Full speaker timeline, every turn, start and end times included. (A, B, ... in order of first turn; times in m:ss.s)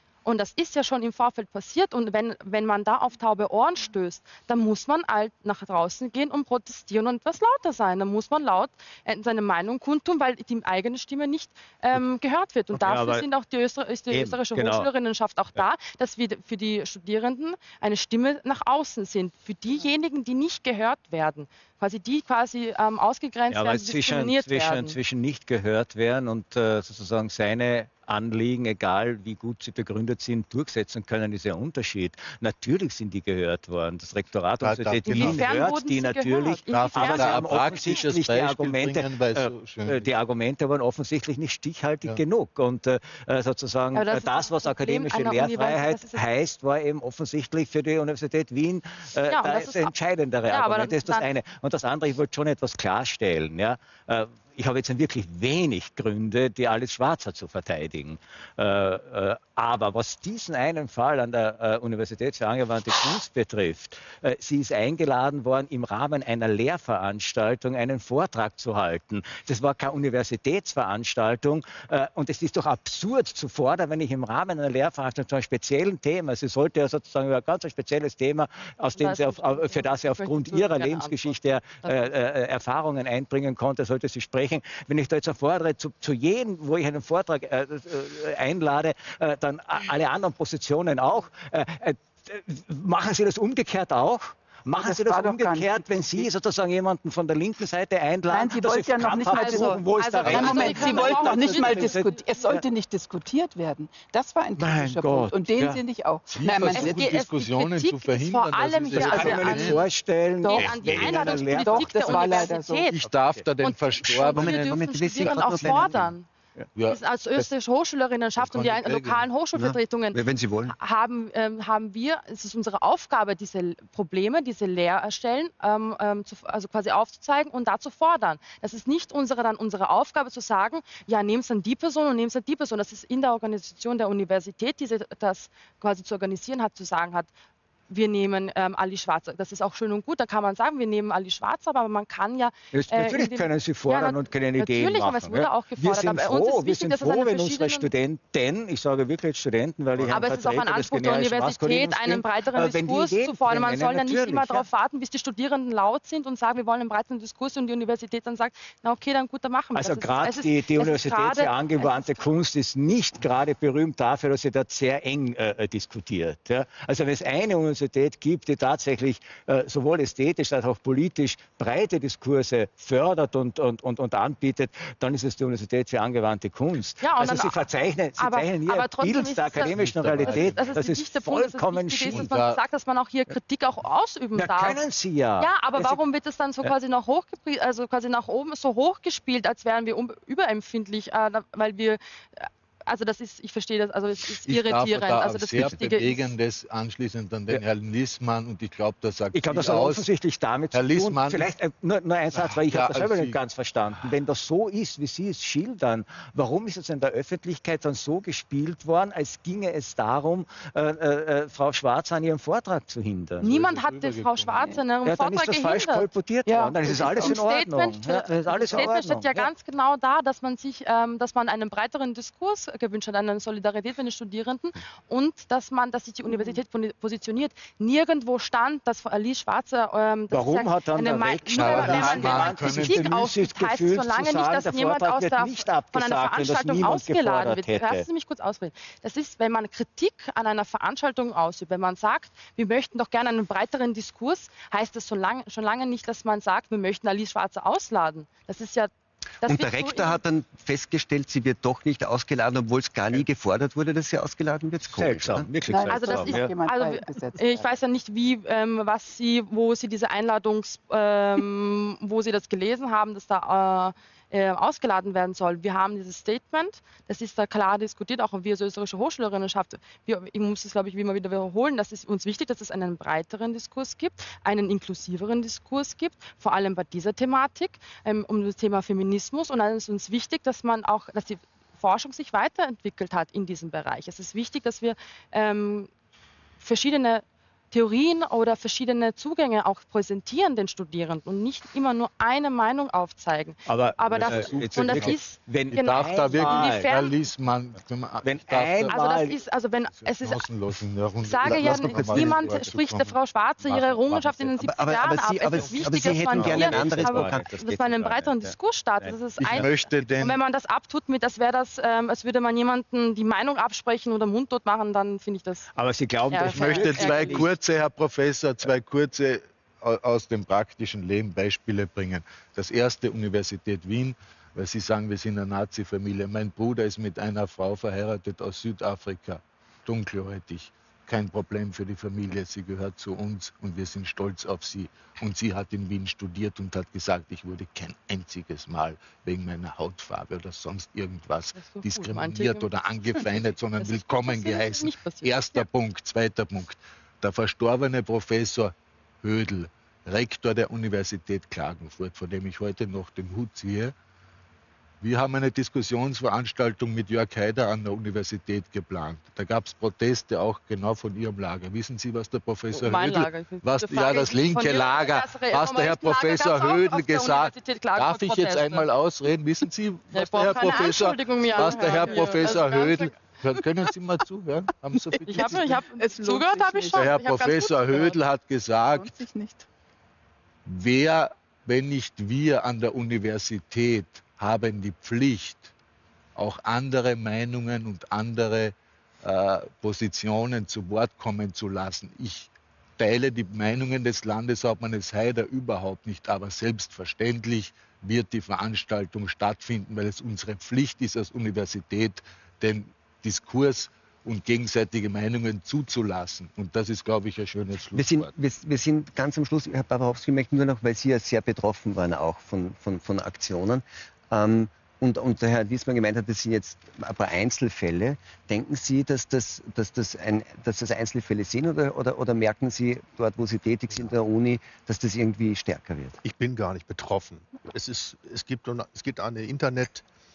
0:00.2-0:25.0 A
0:12.7-0:13.3 B
0:14.1-0:14.9 B
0:23.5-1:42.6 B
0:34.6-0:35.6 C
0:35.1-0:38.0 A
0:36.7-0:40.1 C
0:43.9-0:46.2 A
0:49.3-0:49.9 A
0:50.5-0:51.3 A
1:19.0-1:22.1 A
1:34.7-1:36.3 D
1:38.3-1:47.0 D
1:39.2-1:42.2 A
1:40.2-1:40.7 C
1:44.6-1:45.8 B
1:46.3-1:49.9 C
1:46.7-1:56.3 A
1:48.9-1:52.5 B
1:50.5-1:51.4 C
1:51.5-1:52.9 D
1:52.9-1:56.1 C
1:54.3-1:56.1 E
1:56.8-1:57.0 C
1:56.9-2:17.3 A
1:58.4-1:59.3 C
1:59.6-2:00.8 E
2:17.9-2:27.9 A
2:22.7-2:34.7 B
2:30.0-2:30.4 C
2:30.1-2:42.2 A
2:39.8-3:02.3 B
2:57.0-2:57.6 A
2:58.2-3:04.8 A
2:59.6-3:00.8 C
3:02.1-3:02.6 C
3:04.4-3:06.0 B
3:05.4-3:16.4 A
3:14.4-3:20.1 C
3:19.3-3:33.5 B
3:20.7-3:21.5 C
3:22.3-3:23.4 C
3:33.4-3:36.1 A
3:33.4-3:34.8 C
3:35.0-3:39.5 B
3:36.5-3:37.4 D
3:36.9-4:08.9 A
3:50.3-3:58.1 B
3:51.5-3:53.2 C
4:09.4-4:10.2 A
4:09.4-4:15.5 E
4:14.9-4:16.6 B
4:15.7-4:17.7 D
4:15.9-4:45.9 A
4:46.6-4:57.2 A
4:53.7-4:57.0 B
4:54.1-4:59.0 C
4:58.2-4:59.4 B
4:58.9-5:00.5 A
4:59.9-5:03.1 C
5:01.2-5:15.7 A
5:01.4-5:02.7 E
5:03.7-5:04.4 C
5:03.7-5:04.5 B
5:04.6-5:07.9 E
5:05.5-5:08.2 C
5:06.5-5:07.5 B
5:08.4-5:09.7 B
5:09.4-5:10.4 C
5:15.8-5:17.5 B
5:16.3-5:17.6 A
5:16.5-5:53.9 C
5:41.6-5:45.7 A
5:55.0-6:15.8 C
6:02.7-6:08.9 A
6:10.1-6:13.2 A
6:11.8-6:12.4 D
6:15.2-6:18.2 A
6:15.3-6:17.1 D
6:17.0-6:19.1 C
6:18.9-6:19.7 D
6:20.6-6:25.7 C
6:26.4-6:48.3 C
6:47.9-7:06.2 E
7:06.2-7:10.0 F